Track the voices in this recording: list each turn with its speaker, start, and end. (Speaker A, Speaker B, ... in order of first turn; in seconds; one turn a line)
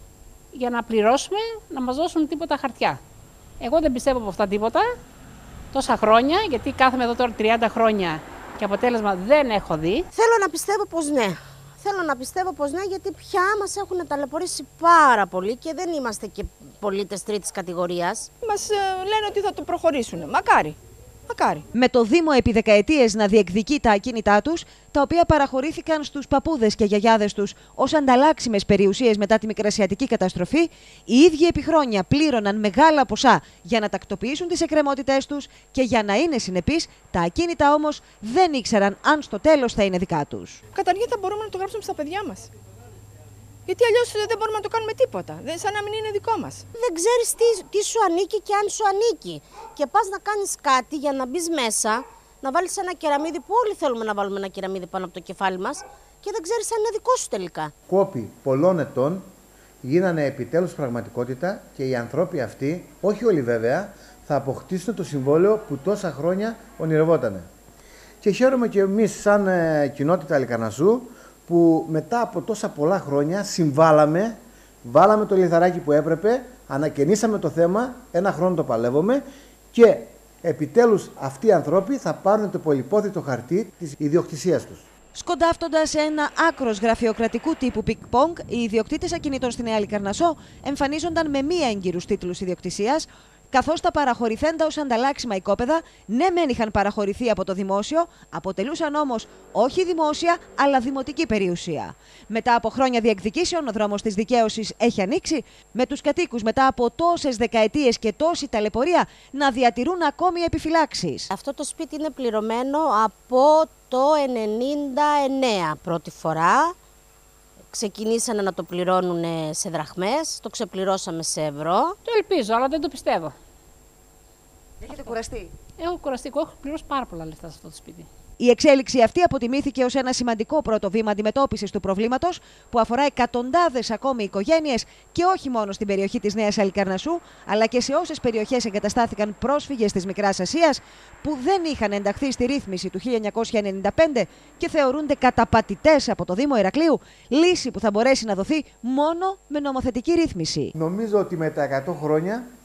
Speaker A: 0.5-3.0
Speaker A: 3.6-4.9
Speaker A: 5.7-10.1
Speaker B: 10.1-18.3
Speaker C: 18.4-20.8
Speaker C: 21.3-21.6
Speaker D: 21.7-40.6
Speaker C: 40.7-42.5
Speaker C: 43.7-46.6
Speaker B: 46.8-57.7
Speaker E: 57.9-59.2
Speaker E: 59.8-67.5
Speaker E: 68.2-84.8
Speaker D: 85.1-111.3
Speaker B: 111.3-116.7
Speaker B: 117.7-122.0
Speaker A: 122.0-123.3
Speaker D: 124.8-125.5
Speaker A: 125.8-128.1
Speaker D: 128.4-150.7
Speaker E: 150.7-152.5